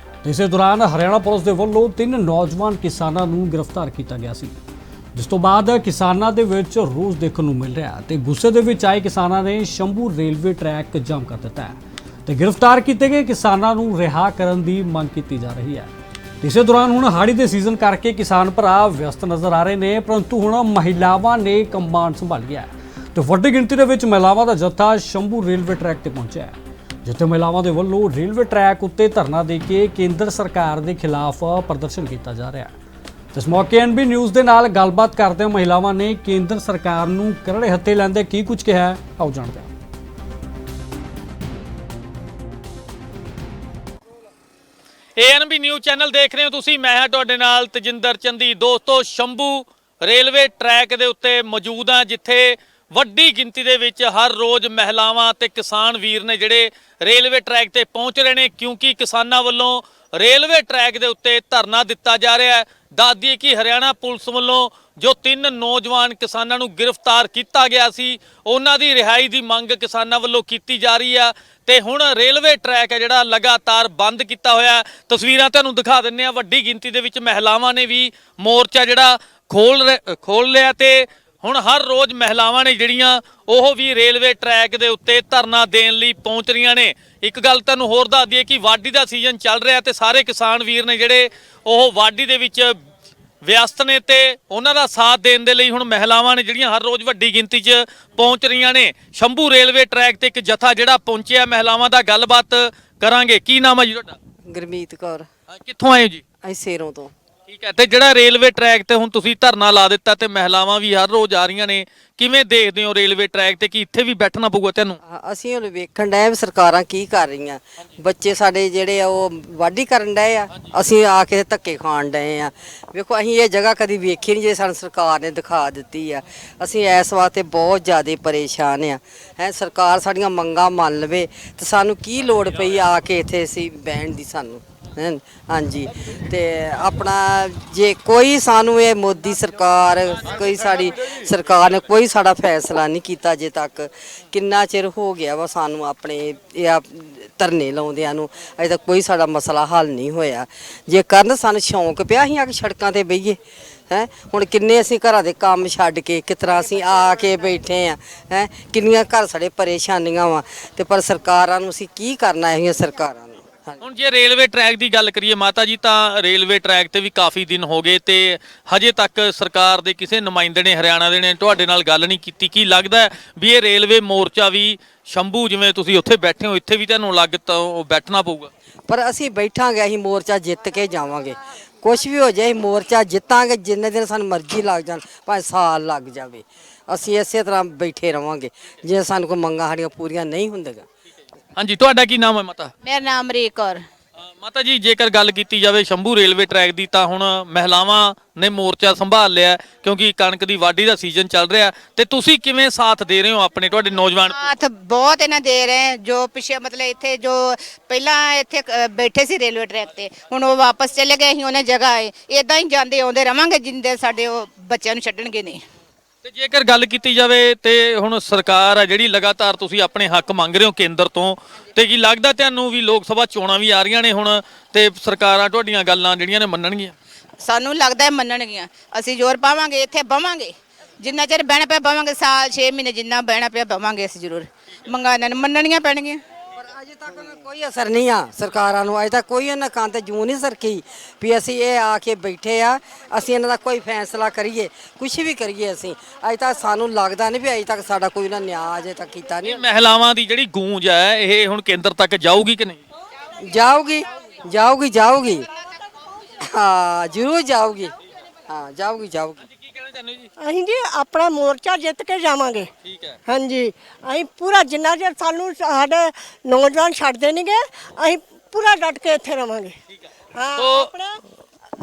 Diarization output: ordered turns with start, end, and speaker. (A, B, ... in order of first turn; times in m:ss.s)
0:00.2-0:04.6 A
0:05.2-0:32.7 A
0:33.3-0:39.7 A
0:45.2-1:32.8 B
1:33.4-1:44.2 B
1:44.5-1:45.3 C
1:45.5-1:46.2 B
1:46.4-1:47.1 C
1:47.5-1:55.0 B
1:55.0-2:33.4 C
2:33.9-2:43.8 C
2:43.8-2:58.5 B
2:58.9-3:10.8 C
3:11.6-3:12.7 B
3:12.8-3:13.8 D
3:14.4-3:24.5 B
3:24.3-3:35.6 D
3:36.2-3:47.0 B
3:47.4-3:56.2 D
3:56.6-4:09.6 C
4:09.4-4:12.8 B
4:13.4-4:15.5 C
4:16.5-4:17.9 C
4:18.5-4:19.4 C
4:19.6-4:20.3 B
4:20.4-4:22.7 E
4:22.8-4:23.2 B
4:23.3-4:29.8 E
4:30.4-4:31.2 E
4:30.5-4:30.9 B